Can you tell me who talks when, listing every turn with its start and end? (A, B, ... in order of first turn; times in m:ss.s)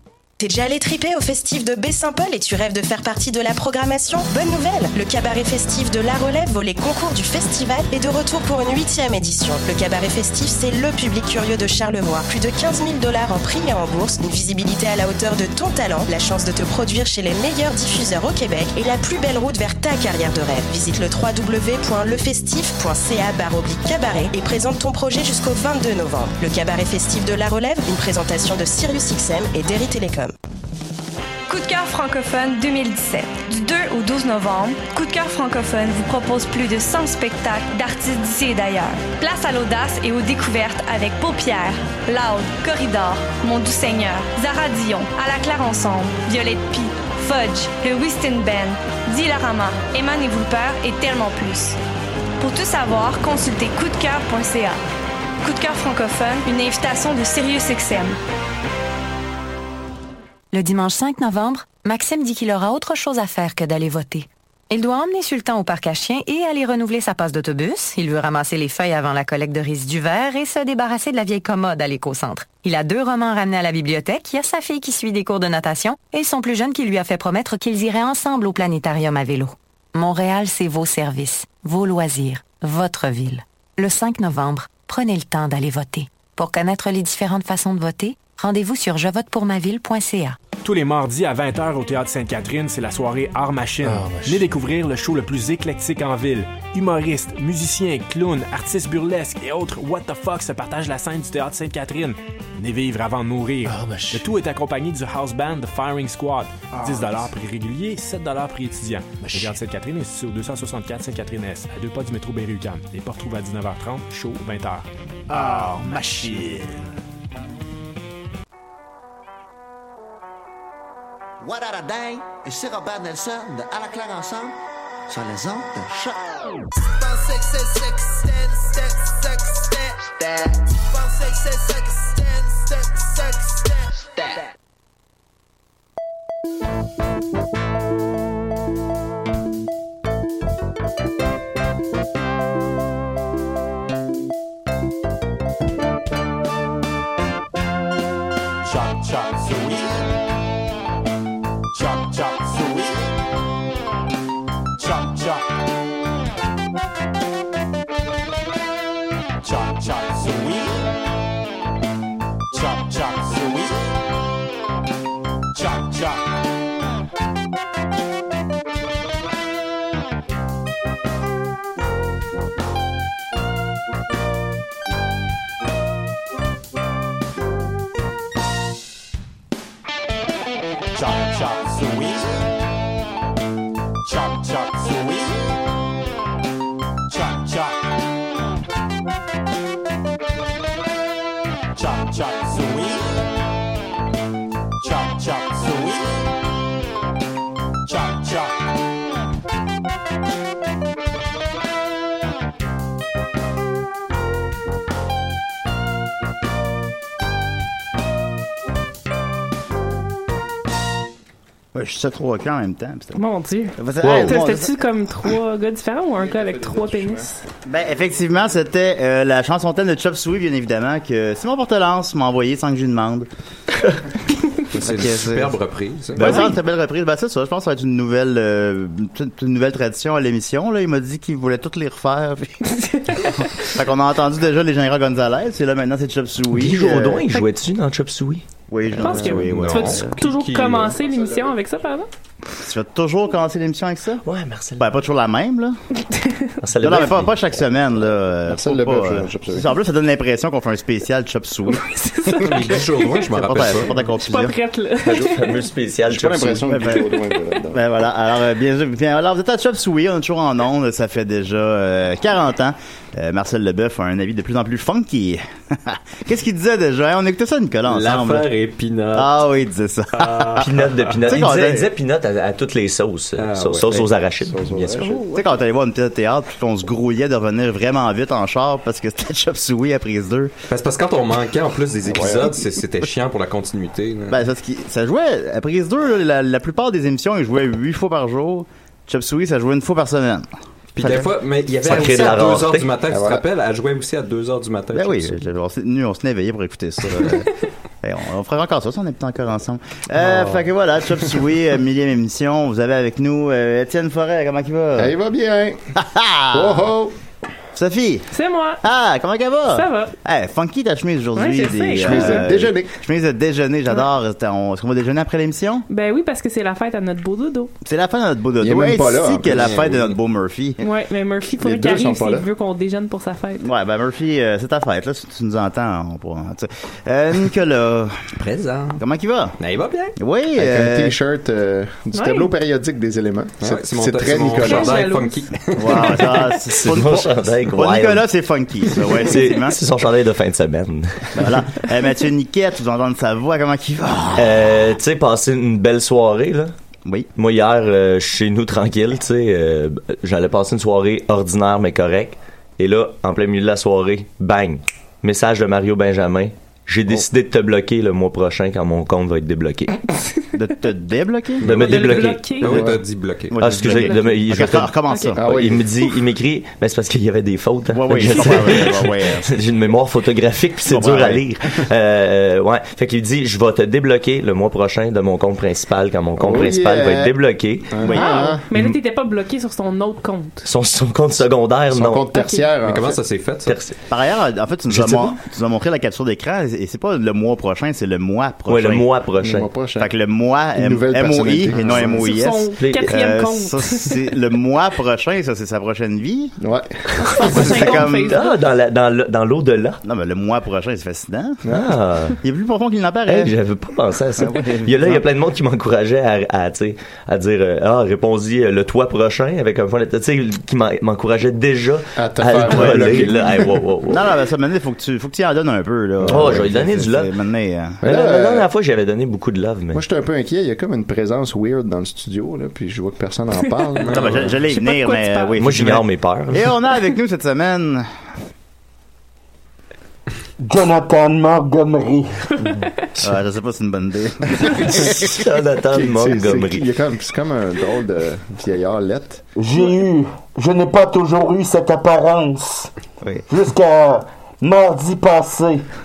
0:00.4-0:30.3 A
0:31.5-0:51.8 B
0:52.4-0:54.8 B
0:55.4-0:58.2 B
1:00.5-1:30.4 C
1:30.6-1:56.6 D
1:33.9-1:34.4 E
1:43.6-1:44.3 E
1:55.4-1:56.0 E
2:01.4-2:04.6 E
2:05.1-2:14.5 E
2:28.6-2:30.1 F
2:31.7-2:33.1 F
2:34.8-2:35.5 F
2:39.4-2:40.8 F
2:42.5-2:43.9 F
2:45.5-2:46.3 F
3:00.9-3:02.3 F
3:04.0-3:05.5 F
3:07.1-3:07.8 F
3:11.8-3:13.2 F
3:14.8-3:16.2 F
3:17.9-3:18.6 F
3:31.7-3:33.2 G
3:33.2-3:37.4 H
3:33.8-3:34.7 G
3:34.0-3:34.4 I
3:36.2-3:37.3 J
3:37.7-3:43.3 G
3:44.7-3:46.6 K
3:44.8-3:45.6 G
3:46.2-3:52.6 G
3:46.2-3:46.5 H
3:52.6-3:53.8 H
3:53.2-3:57.3 G
3:56.5-3:58.5 I
3:58.7-4:00.2 G
3:59.0-4:02.1 H
3:59.0-4:01.0 K
4:01.0-4:01.4 J
4:02.6-4:04.2 G
4:04.2-4:04.8 I
4:04.8-4:05.8 G
4:06.0-4:06.5 H
4:06.6-4:07.4 I
4:06.8-4:14.6 G
4:08.4-4:09.8 J
4:11.7-4:13.3 H
4:12.4-4:14.0 K
4:14.1-4:15.6 H
4:15.1-4:16.9 I
4:16.1-4:17.8 J
4:16.7-4:17.2 G
4:17.7-4:28.5 G
4:27.9-4:29.4 K
4:29.1-4:31.9 G
4:30.2-4:30.6 K
4:30.6-4:34.6 I
4:33.4-4:34.1 K
4:34.4-4:35.2 J
4:34.7-4:35.4 K
4:35.3-4:40.5 G
4:40.7-4:44.4 K
4:42.0-4:42.6 J
4:44.3-4:50.5 G
4:51.0-4:55.4 K
4:51.0-4:51.3 G
4:51.8-4:52.9 I
4:53.1-4:53.4 J
4:54.9-5:05.1 G
5:00.2-5:00.6 J
5:05.0-5:05.9 J
5:06.0-5:06.9 G
5:06.5-5:07.2 J
5:07.8-5:08.3 G
5:08.3-5:08.8 H
5:08.8-5:15.8 G
5:09.7-5:10.1 H
5:11.4-5:12.4 H
5:12.0-5:13.0 J
5:15.9-5:17.7 H
5:17.8-5:20.8 G
5:18.6-5:19.8 J
5:19.5-5:20.2 K
5:20.8-5:23.7 H
5:21.6-5:22.5 J
5:23.6-5:28.2 G
5:28.4-5:29.0 K
5:29.0-5:29.5 G
5:29.6-5:30.2 K
5:30.2-5:31.2 G
5:30.6-5:35.0 J
5:32.1-5:32.5 H
5:33.6-5:36.4 K
5:34.6-5:35.9 H
5:35.7-5:39.8 G
5:36.7-5:38.2 I
5:39.1-5:41.5 I
5:41.3-5:44.8 G
5:44.4-5:46.7 I
5:47.4-6:00.0 I
6:00.2-6:00.5 H
6:00.5-6:01.6 G
6:01.6-6:02.8 I
6:01.6-6:03.6 K
6:01.7-6:02.9 H
6:02.6-6:03.0 J
6:03.5-6:05.5 G
6:03.6-6:18.1 I
6:03.8-6:04.4 H
6:05.1-6:05.4 H
6:05.4-6:06.0 J
6:07.9-6:09.5 G
6:10.9-6:11.5 G
6:16.4-6:17.3 J
6:17.9-6:18.8 J
6:18.0-6:18.6 G
6:18.1-6:20.7 H
6:20.6-6:22.2 I
6:21.9-6:23.2 J
6:22.3-6:22.7 H
6:22.8-6:23.8 K
6:23.7-6:24.0 I
6:24.1-6:29.1 G
6:25.0-6:25.2 I
6:28.7-6:29.7 I
6:29.4-6:30.1 J
6:30.0-6:36.6 G
6:30.7-6:32.3 J
6:32.2-6:34.2 H
6:32.7-6:33.1 I
6:36.6-6:37.0 J
6:37.2-6:38.6 H
6:37.4-6:38.4 G
6:37.7-6:40.0 I
6:40.0-6:41.6 G
6:41.6-6:42.0 J
6:41.7-6:42.4 I
6:42.4-6:43.5 G
6:43.3-6:54.3 I
6:44.4-6:45.2 G
6:52.2-6:53.8 J
6:54.1-6:58.0 G
6:56.2-6:56.9 J
6:56.2-6:57.3 I
6:58.0-6:58.7 J
6:58.0-7:00.0 I
6:59.9-7:04.4 J
7:04.0-7:04.5 K
7:04.1-7:08.1 G
7:04.7-7:05.6 H
7:05.6-7:06.8 I
7:10.6-7:12.3 L
7:12.6-7:13.1 H
7:13.2-7:15.4 G
7:15.0-7:16.8 I
7:15.9-7:19.4 J
7:19.6-7:22.9 L
7:23.5-7:25.9 L